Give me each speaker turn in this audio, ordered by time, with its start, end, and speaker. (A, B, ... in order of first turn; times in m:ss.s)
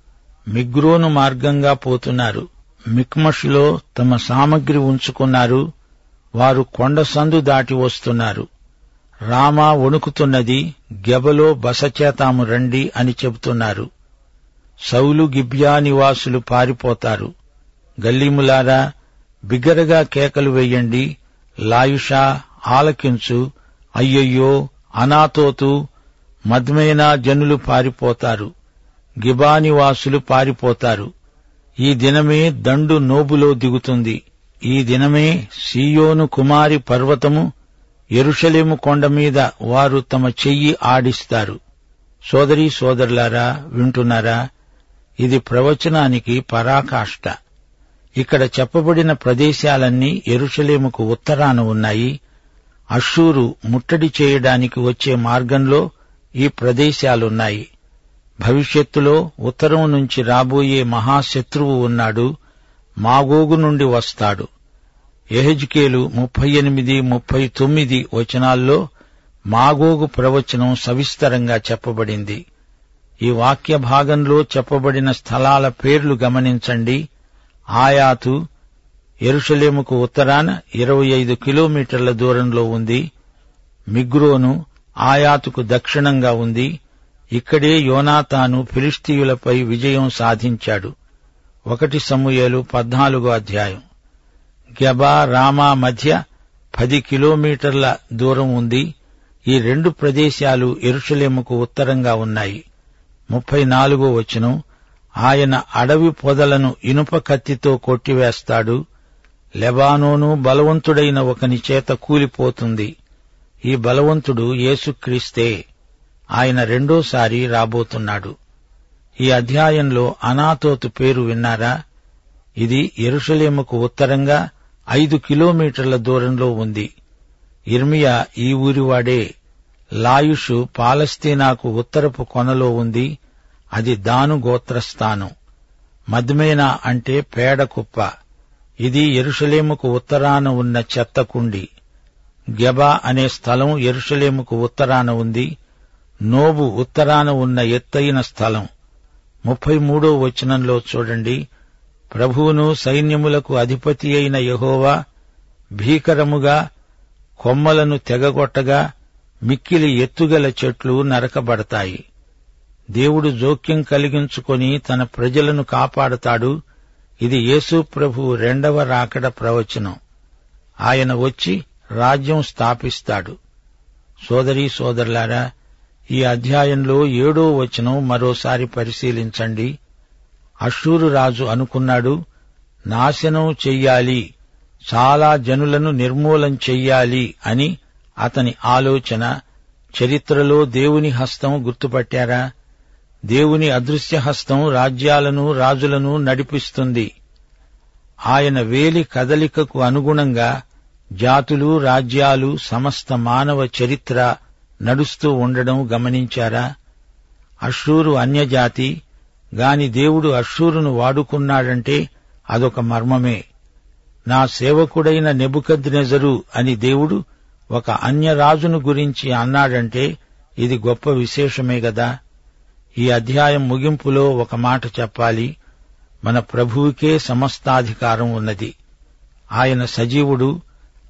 0:00.5-0:05.6 A
0:06.4-0:08.5 A
0:09.3-0:13.9 A
0:14.9-0:17.3 A
0:18.0-0:18.8 A
0:19.5-0:21.1 A
0:21.7-0:23.4 A
0:24.0-0:25.7 A
0:26.5-0:28.5 A
0:29.2-0:31.1 A
0:31.8-0:34.2 A
0:34.7-0:37.5 A
0:38.2-0:41.6 A
0:42.3-0:44.4 A
0:45.2-0:47.3 A
0:48.2-0:52.1 A
0:52.9-0:55.8 A
0:56.4-0:57.6 A
0:58.4-1:02.3 A
1:03.0-1:04.5 A
1:05.3-1:08.8 A
1:09.5-1:12.4 A
1:13.2-1:17.0 A
1:17.8-1:18.4 A
1:19.3-1:23.0 A
1:23.9-1:26.7 A
1:27.3-1:30.9 A
1:31.7-1:33.8 A
1:34.8-1:36.2 A
1:36.7-1:38.8 A
1:39.5-1:42.6 A
1:43.3-1:44.5 A
1:45.2-1:48.8 A
1:49.6-1:52.9 A
1:53.7-1:55.5 A
1:56.4-1:58.3 A
1:59.2-2:01.7 A
2:02.6-2:04.4 A
2:04.9-2:06.9 A
2:07.7-2:09.2 A
2:10.0-2:13.1 A
2:13.8-2:15.3 A
2:16.1-2:18.1 A
2:18.8-2:21.6 A
2:22.6-2:25.5 A
2:26.3-2:28.7 A
2:29.4-2:31.4 A
2:32.1-2:34.9 A
2:35.8-2:36.6 A
2:37.4-2:38.8 A
2:39.5-2:42.0 A
2:43.0-2:46.5 A
2:47.2-2:50.0 A
2:50.8-2:53.3 A
2:54.3-2:55.4 A
2:56.1-2:59.7 A
3:00.6-3:02.2 A
3:02.9-3:04.2 A
3:04.9-3:09.3 A
3:10.0-3:12.4 A
3:13.3-3:17.1 A
3:18.3-3:20.5 A
3:21.2-3:24.3 A
3:24.8-3:26.6 A
3:27.6-3:28.9 A
3:29.6-3:32.0 A
3:32.5-3:33.4 A
3:34.3-3:37.2 A
3:37.7-3:40.1 A
3:40.6-3:42.1 A
3:43.0-3:45.5 A
3:46.2-3:48.7 A
3:49.6-3:50.5 A